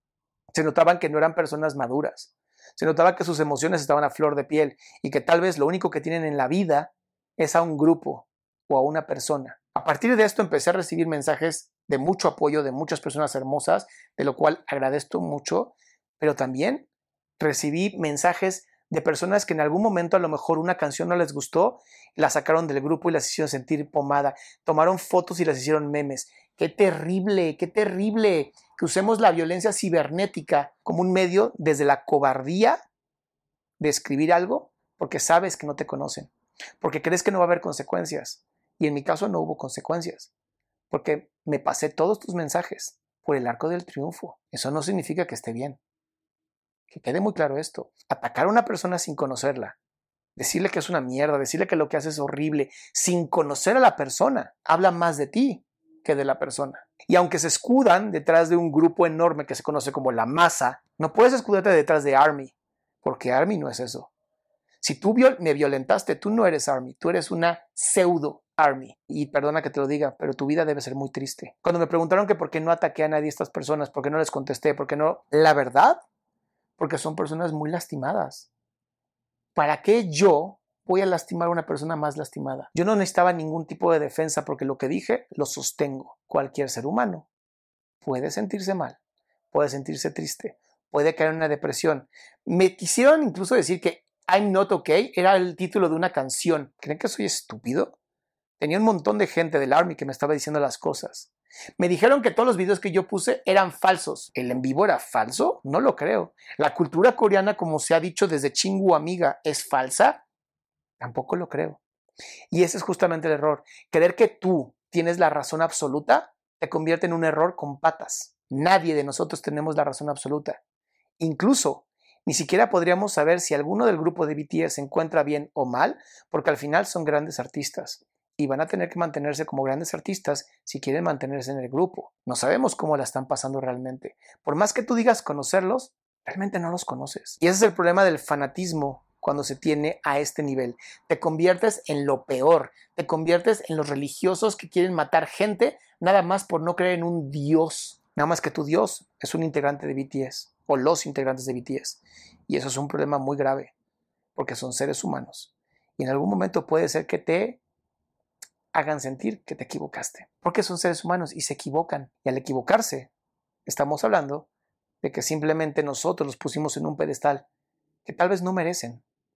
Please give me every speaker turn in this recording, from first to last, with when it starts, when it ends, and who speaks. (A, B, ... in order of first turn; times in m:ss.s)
0:00.5-0:16.9 A
0:17.4-0:32.8 A
0:33.8-0:36.3 A
0:36.8-0:40.3 A
0:40.9-0:45.8 A
0:46.9-0:49.8 A
0:50.4-1:04.1 A
1:04.8-1:16.0 A
1:16.8-1:18.5 A
1:19.6-1:27.3 A
1:28.0-1:29.0 A
1:29.5-1:38.0 A
1:38.6-1:50.2 A
1:51.0-1:51.8 A
1:52.5-2:00.6 A
2:01.2-2:33.7 A
2:34.4-2:37.6 A
2:38.7-2:43.1 A
2:43.7-2:44.5 A
2:45.0-2:47.5 A
2:48.0-2:49.0 A